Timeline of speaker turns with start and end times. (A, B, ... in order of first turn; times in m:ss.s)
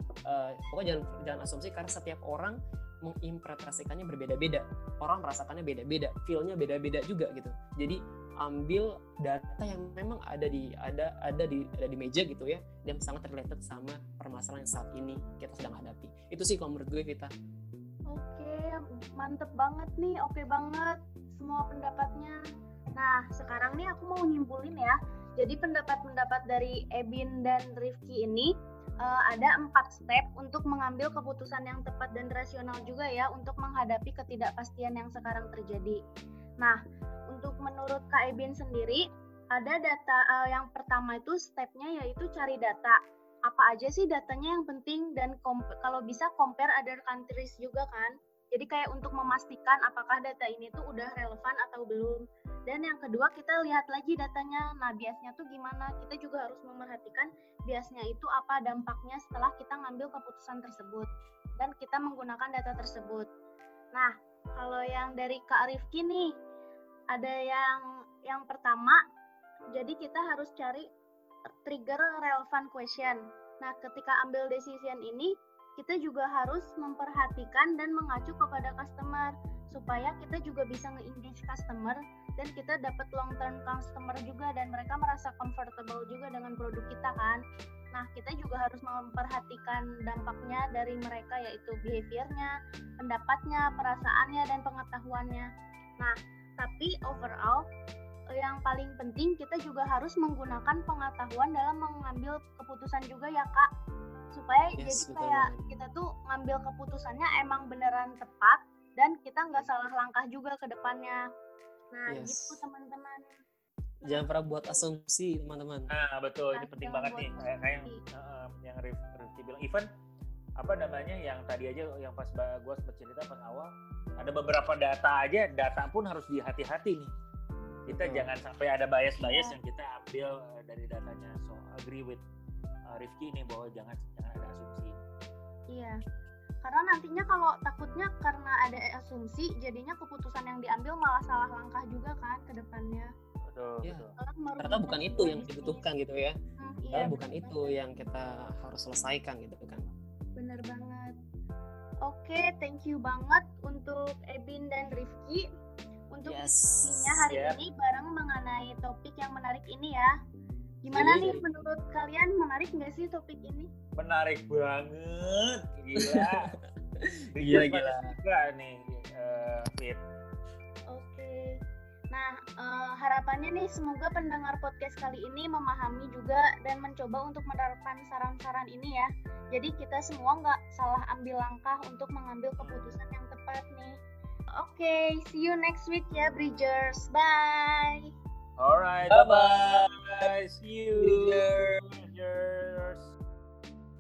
0:00.3-0:17.3 A
0:18.1-0:22.4 B
0:23.0-0:36.0 B
0:37.3-1:01.1 B
1:01.6-1:03.3 B
1:03.9-1:06.3 B
1:07.1-1:09.0 B
1:09.8-1:10.9 B
1:11.6-1:27.4 B
1:27.9-1:35.5 B
1:36.0-1:37.6 B
1:38.4-1:43.7 B
1:44.3-1:51.2 B
1:44.8-1:45.6 A
1:51.9-1:53.2 B
1:52.1-1:52.6 A
1:54.0-1:54.9 B
1:54.0-1:55.9 A
1:55.9-1:59.9 C
1:56.5-1:58.0 B
2:00.6-2:07.1 C
2:07.9-2:12.2 C
2:07.9-2:08.3 A
2:09.2-2:09.6 B
2:12.9-2:15.0 C
2:15.7-2:16.0 B
2:16.6-2:23.1 B
2:23.5-2:24.1 C
2:24.2-2:25.9 B
2:24.6-2:26.4 A
2:26.6-2:27.8 B
2:26.9-2:29.9 A
2:30.4-2:31.2 B
2:32.0-2:35.5 B
2:36.1-2:40.1 B
2:36.2-2:37.2 A
2:37.2-2:37.6 C
2:40.8-2:43.7 B
2:40.9-2:41.4 C
2:40.9-2:41.5 A
2:43.9-2:46.5 C
2:46.0-2:48.2 A
2:47.4-2:50.0 C
2:50.9-2:51.6 B
2:52.1-3:04.0 B
3:02.6-3:02.9 C
3:04.5-3:08.1 B
3:08.6-3:13.1 C
3:09.2-3:09.5 A
3:11.0-3:11.4 A